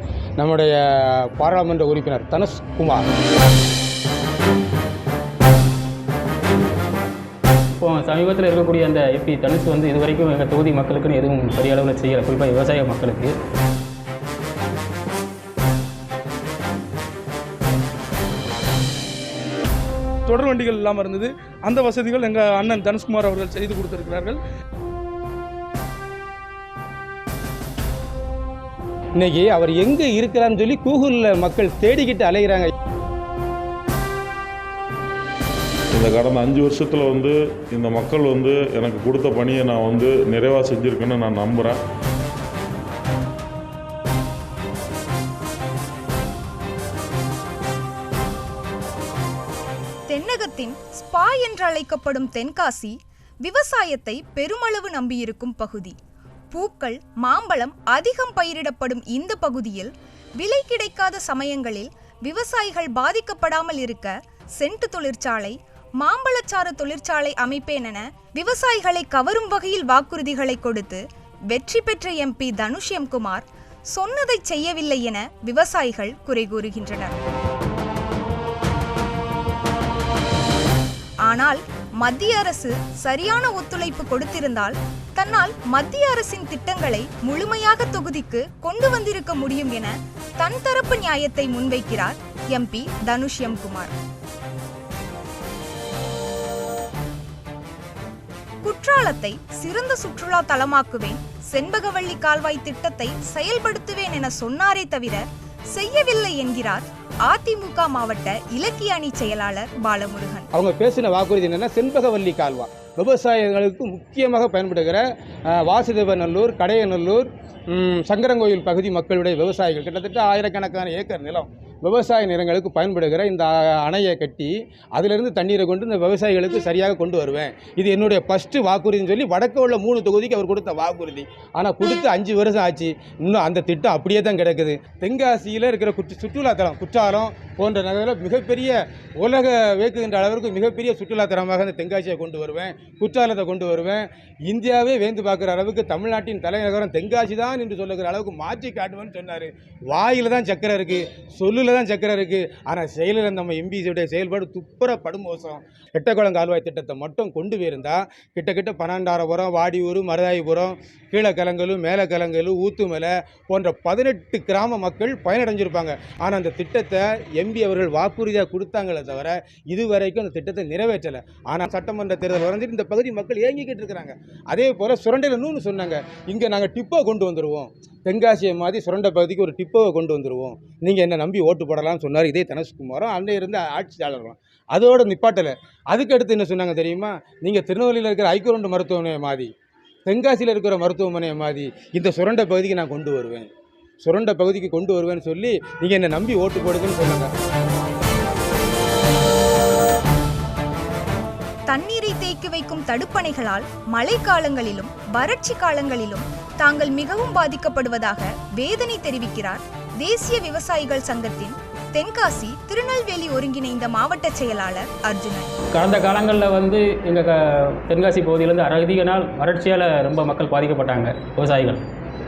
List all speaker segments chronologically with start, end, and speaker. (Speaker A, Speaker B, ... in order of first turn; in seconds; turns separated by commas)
Speaker A: 0.4-3.0, Speaker B: 7.8-13.3, Speaker C: 20.3-24.4, Speaker A: 29.2-32.7, Speaker D: 35.9-41.8, Speaker E: 50.1-56.0, Speaker E: 56.5-77.1, Speaker E: 81.2-93.9, Speaker E: 98.6-110.5, Speaker A: 110.5-115.0, Speaker A: 115.6-189.5, Speaker A: 190.1-193.5, Speaker A: 194.0-197.3, Speaker E: 201.7-215.5, Speaker B: 215.7-221.8